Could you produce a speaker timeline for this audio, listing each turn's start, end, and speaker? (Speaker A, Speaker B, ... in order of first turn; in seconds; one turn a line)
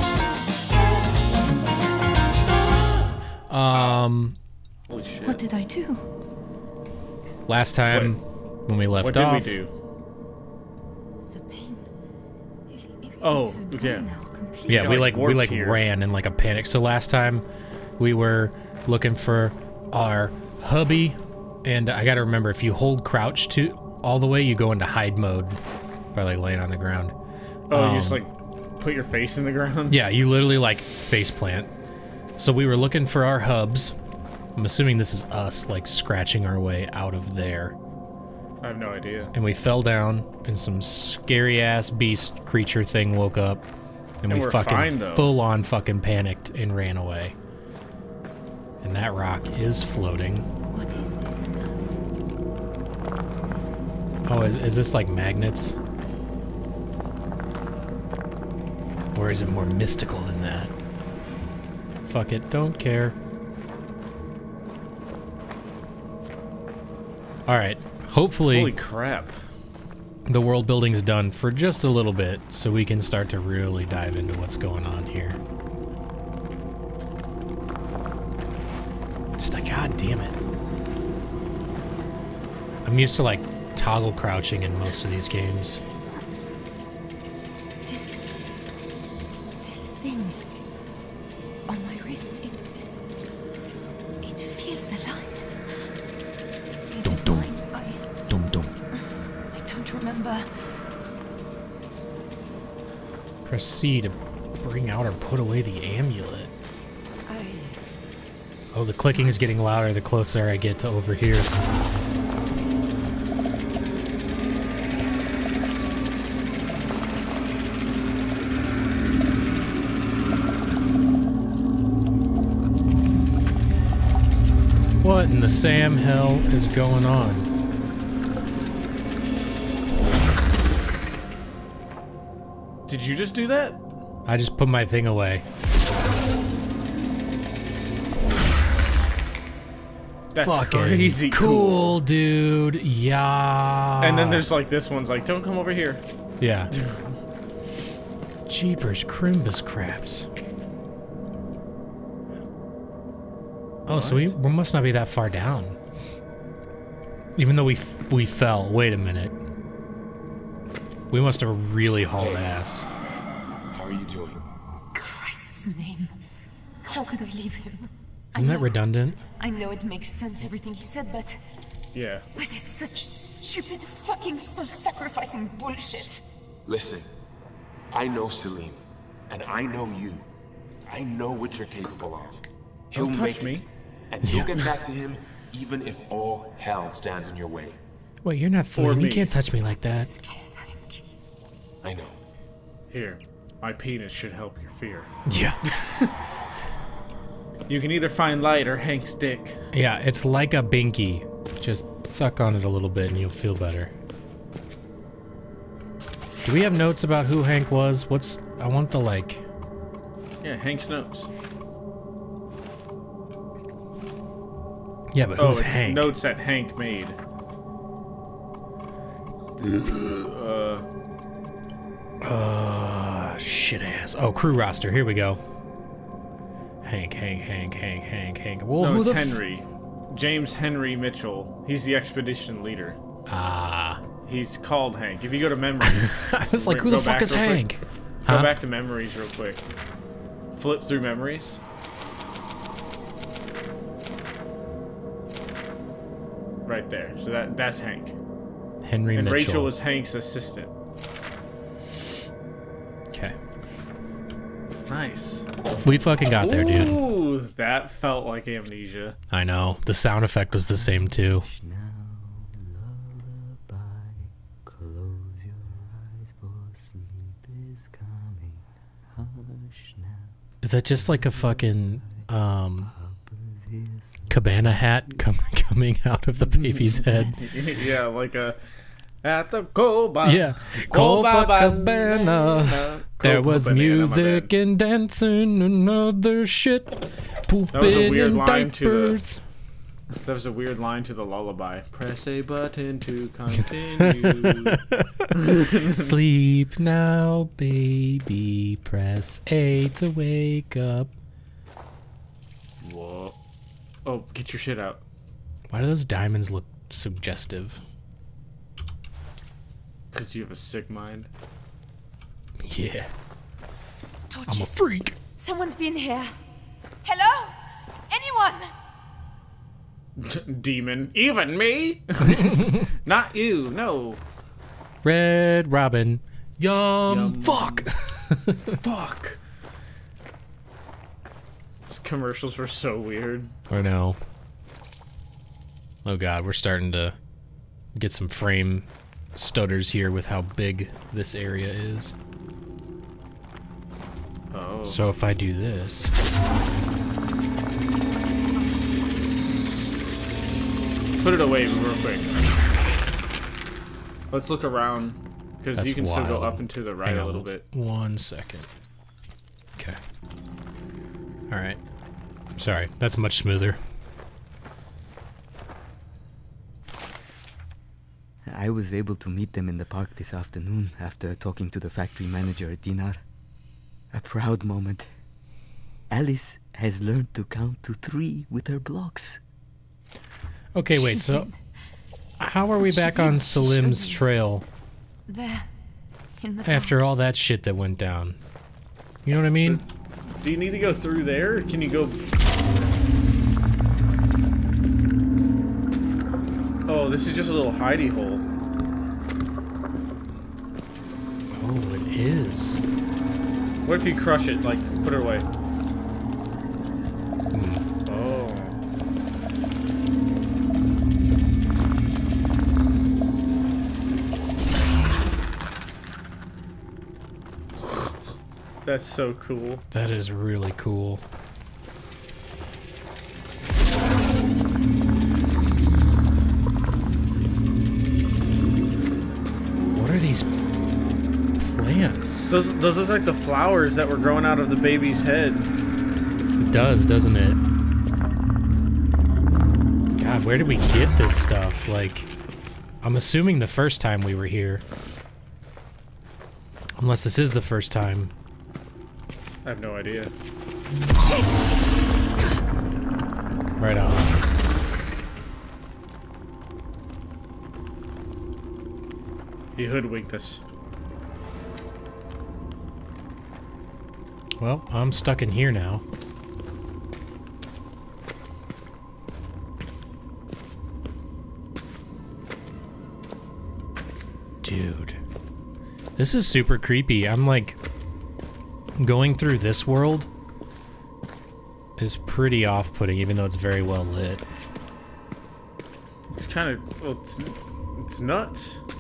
Speaker A: 3.5-4.4
Speaker B: 3.7-4.0
Speaker B: 4.9-5.4
Speaker C: 5.3-6.1
Speaker A: 7.5-9.6
Speaker B: 7.9-8.2
Speaker B: 9.0-9.7
Speaker C: 11.3-11.9
Speaker C: 12.7-14.9
Speaker B: 13.2-14.1
Speaker B: 14.7-15.8
Speaker A: 14.7-17.4
Speaker A: 18.0-25.6
Speaker A: 26.1-27.1
Speaker B: 27.7-30.0
Speaker A: 27.7-28.2
Speaker A: 29.9-31.7
Speaker A: 32.4-34.0
Speaker A: 34.6-37.8
Speaker B: 38.6-39.3
Speaker A: 39.3-43.6
Speaker A: 44.2-47.4
Speaker B: 44.3-45.3
Speaker A: 48.8-50.5
Speaker C: 50.6-52.0
Speaker A: 54.3-55.8
Speaker A: 59.1-60.7
Speaker A: 62.1-63.2
Speaker A: 67.5-68.8
Speaker B: 68.5-69.3
Speaker A: 70.3-75.4
Speaker A: 79.4-80.4
Speaker A: 82.8-85.8
Speaker C: 87.8-88.2
Speaker C: 89.6-90.4
Speaker C: 91.7-92.8
Speaker C: 94.2-95.8
Speaker C: 96.9-98.0
Speaker D: 97.0-97.5
Speaker D: 98.3-98.7
Speaker C: 99.5-100.5
Speaker A: 103.5-106.5
Speaker C: 107.3-107.8
Speaker A: 108.7-111.5
Speaker C: 109.1-109.5
Speaker A: 125.0-127.5
Speaker B: 132.9-133.8
Speaker A: 134.3-135.4
Speaker B: 140.3-141.9
Speaker A: 140.4-144.4
Speaker B: 144.0-146.0
Speaker A: 146.4-146.7
Speaker B: 146.7-147.1
Speaker A: 148.5-150.3
Speaker A: 153.9-155.8
Speaker B: 153.9-154.3
Speaker A: 157.4-159.4
Speaker A: 161.1-162.9
Speaker E: 162.2-162.5
Speaker E: 163.7-164.4
Speaker C: 164.9-166.2
Speaker C: 166.8-171.4
Speaker A: 168.3-169.2
Speaker B: 171.9-172.3
Speaker C: 172.3-176.2
Speaker E: 176.7-177.1
Speaker E: 177.9-180.2
Speaker E: 180.9-187.8
Speaker B: 182.9-183.7
Speaker A: 184.2-184.7
Speaker A: 188.2-190.1
Speaker B: 188.8-189.4
Speaker C: 189.9-191.0
Speaker E: 191.8-192.2
Speaker B: 192.9-195.1
Speaker A: 195.3-195.6
Speaker B: 195.7-196.1
Speaker B: 197.7-199.6
Speaker A: 199.7-203.9
Speaker A: 206.4-209.4
Speaker B: 210.4-211.3
Speaker A: 215.1-216.2
Speaker B: 215.4-217.2
Speaker B: 219.6-220.8
Speaker A: 222.2-225.4
Speaker A: 226.8-229.4
Speaker B: 228.8-233.0
Speaker A: 233.3-234.0
Speaker B: 234.3-237.7
Speaker A: 235.8-238.6
Speaker B: 238.2-239.6
Speaker B: 240.5-241.6
Speaker B: 246.7-248.2
Speaker A: 248.8-249.7
Speaker B: 249.2-250.7
Speaker B: 254.9-255.5
Speaker A: 255.8-257.0
Speaker B: 256.4-259.2
Speaker A: 259.3-261.5
Speaker D: 260.6-270.4
Speaker A: 270.6-272.9
Speaker D: 270.9-272.2
Speaker D: 272.8-274.8
Speaker A: 274.3-277.4
Speaker B: 276.4-278.6
Speaker B: 279.2-284.5
Speaker A: 280.2-289.4
Speaker B: 287.7-289.2
Speaker B: 290.1-294.8
Speaker A: 294.0-301.1
Speaker B: 295.3-296.2
Speaker B: 302.8-303.4
Speaker B: 304.1-305.0
Speaker A: 305.7-307.8
Speaker B: 310.1-311.3
Speaker A: 312.6-313.1
Speaker C: 314.3-316.4
Speaker A: 314.5-315.2
Speaker C: 317.0-318.7
Speaker B: 320.2-324.2
Speaker A: 325.0-328.8
Speaker B: 327.1-327.9
Speaker B: 328.8-329.4
Speaker B: 331.9-333.5
Speaker A: 333.7-334.2
Speaker A: 336.1-337.1
Speaker A: 337.9-342.1
Speaker B: 344.5-345.1
Speaker A: 344.9-346.1
Speaker C: 348.1-351.3
Speaker B: 351.2-352.4
Speaker B: 354.3-357.6
Speaker A: 355.8-358.7
Speaker A: 361.5-361.8
Speaker A: 362.6-363.8
Speaker D: 368.5-373.2
Speaker D: 374.1-375.1
Speaker D: 376.1-379.4
Speaker A: 380.7-381.5
Speaker C: 380.9-381.6
Speaker A: 382.4-384.6
Speaker C: 382.8-384.2
Speaker C: 385.3-385.7
Speaker C: 386.4-387.1
Speaker A: 386.6-388.4
Speaker A: 389.2-389.8
Speaker B: 390.4-392.2
Speaker B: 396.9-398.4
Speaker A: 401.5-402.8
Speaker B: 403.9-405.5
Speaker A: 407.5-407.9
Speaker B: 408.1-408.8
Speaker B: 417.8-418.1
Speaker B: 418.9-419.8
Speaker A: 419.9-421.2
Speaker A: 429.9-430.5
Speaker A: 431.6-432.6
Speaker B: 432.5-435.7
Speaker A: 436.6-437.6
Speaker A: 440.2-442.3
Speaker A: 443.0-444.8
Speaker A: 447.0-448.3
Speaker B: 449.6-450.3
Speaker C: 451.2-451.8
Speaker A: 453.8-454.4
Speaker B: 459.8-460.6
Speaker A: 464.6-466.0
Speaker A: 474.6-475.2
Speaker A: 476.2-477.8
Speaker A: 479.0-480.3
Speaker A: 482.0-484.4
Speaker B: 486.3-488.8